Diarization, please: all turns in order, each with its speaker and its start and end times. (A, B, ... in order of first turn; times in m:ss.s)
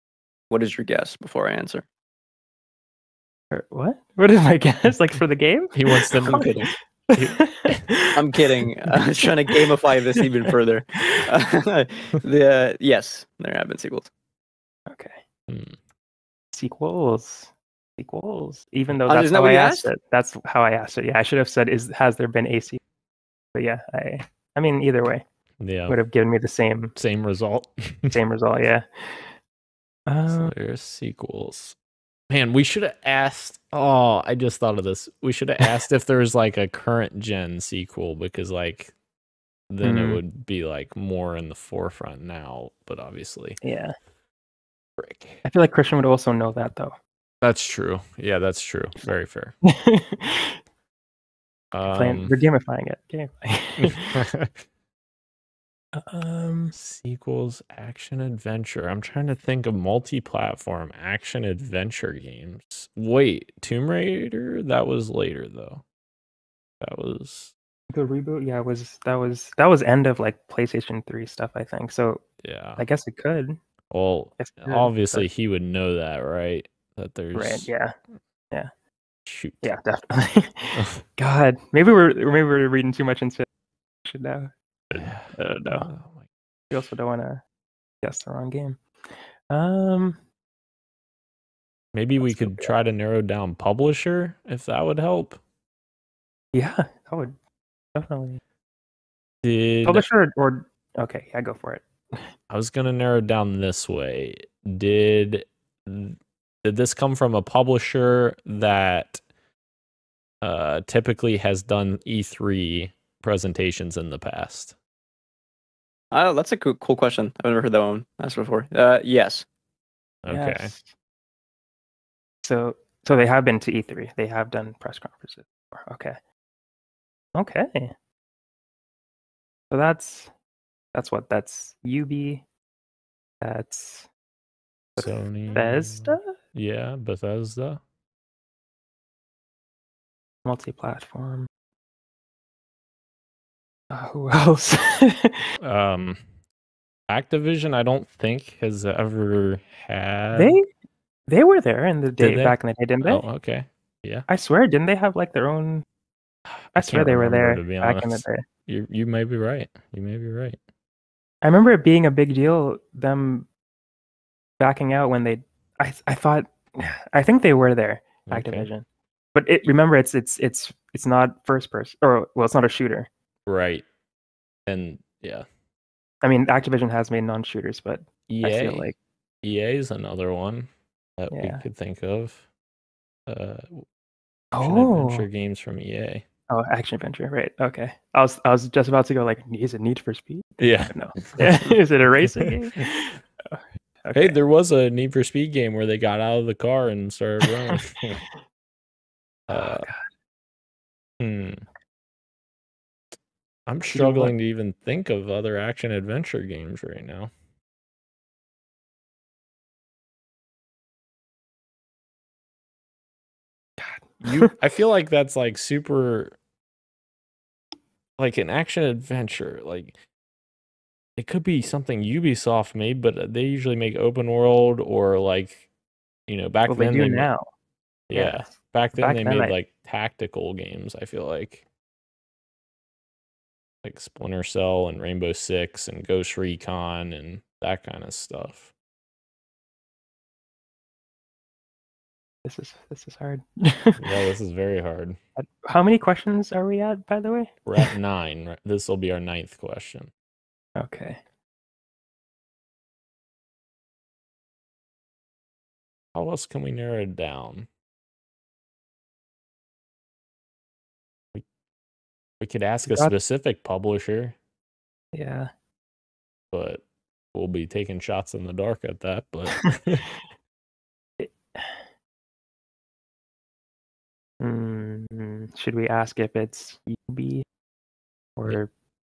0:00.5-0:01.8 A
0:03.5-0:08.2 B
0:05.7-0:07.8 C
0:08.1-0:14.1 A
0:08.9-0:10.5 B
0:14.9-0:15.2 B
0:15.5-0:15.8 C
0:16.5-0:22.8 B
0:19.1-0:19.9 A
0:23.5-0:25.2 B
0:25.6-0:26.0 C
0:25.9-0:27.0 B
0:27.0-0:28.2 C
0:28.1-0:29.3 B
0:30.1-0:30.5 B
0:30.3-0:31.8 C
0:32.3-0:38.9 C
0:39.7-0:43.6 C
0:39.8-0:40.2 B
0:43.6-0:43.9 B
0:45.0-0:45.4 C
0:45.4-0:47.0 B
0:47.4-0:49.5 C
0:49.6-0:50.6 B
0:51.7-0:52.4 C
0:51.9-0:54.3 B
0:53.8-0:54.7 C
0:55.9-0:56.7 B
0:56.7-1:05.8 C
1:06.8-1:07.5 C
1:07.9-1:12.2 B
1:12.4-1:12.8 C
1:12.8-1:13.6 B
1:13.9-1:17.7 C
1:14.4-1:15.3 B
1:17.4-1:17.9 B
1:19.3-1:19.7 C
1:19.6-1:23.5 B
1:20.8-1:21.0 C
1:24.0-1:25.9 B
1:24.9-1:26.8 C
1:26.7-1:27.4 B
1:28.0-1:28.8 B
1:29.5-1:30.2 B
1:31.9-1:35.4 C
1:32.2-1:32.8 B
1:36.5-1:37.4 B
1:38.0-1:38.4 B
1:39.4-1:40.1 C
1:39.8-1:42.3 B
1:42.5-1:49.2 C
1:50.4-1:54.8 C
1:56.1-1:59.4 A
2:00.2-2:00.7 C
2:00.3-2:00.9 B
2:02.4-2:06.2 B
2:07.4-2:07.9 B
2:09.7-2:10.3 B
2:10.9-2:12.4 B
2:13.4-2:14.1 B
2:15.0-2:16.3 B
2:15.0-2:17.8 C
2:20.4-2:21.5 B
2:23.9-2:25.5 B
2:25.6-2:26.2 C
2:27.1-2:30.6 C
2:30.3-2:30.6 B
2:31.3-2:33.2 B
2:32.2-2:34.3 C
2:34.3-2:35.8 B
2:36.5-2:40.6 C
2:36.8-2:38.4 B
2:41.4-2:43.5 B
2:44.6-2:53.1 B
2:48.3-2:48.7 C
2:53.5-2:53.8 C
2:54.7-2:55.5 C
2:56.2-2:59.0 B
2:58.3-2:58.9 C
2:59.4-3:02.4 C
3:01.3-3:01.6 B
3:03.3-3:03.8 C
3:04.5-3:05.3 B
3:04.6-3:06.2 C
3:06.5-3:14.4 B
3:10.6-3:12.8 C
3:14.1-3:18.2 C
3:17.4-3:17.8 B
3:19.5-3:19.9 C
3:19.5-3:20.0 B
3:21.2-3:21.7 C
3:23.7-3:27.3 C
3:23.9-3:24.3 B
3:33.8-3:34.5 B
3:34.2-3:36.4 C
3:38.2-3:40.0 C
3:41.2-3:45.7 C
3:46.3-3:47.3 C
3:46.7-3:47.5 B
3:48.1-3:51.6 C
3:48.1-3:49.6 B
3:53.8-3:58.7 C
4:02.4-4:04.0 B
4:04.0-4:05.2 C
4:05.4-4:07.9 B
4:07.7-4:10.1 C
4:10.8-4:11.2 B
4:16.1-4:17.7 C
4:22.4-4:24.4 C
4:22.9-4:23.1 B
4:25.1-4:25.5 B
4:26.5-4:26.8 C
4:27.3-4:30.0 C
4:31.2-4:31.8 B
4:34.4-4:37.4 B
4:38.4-4:38.7 B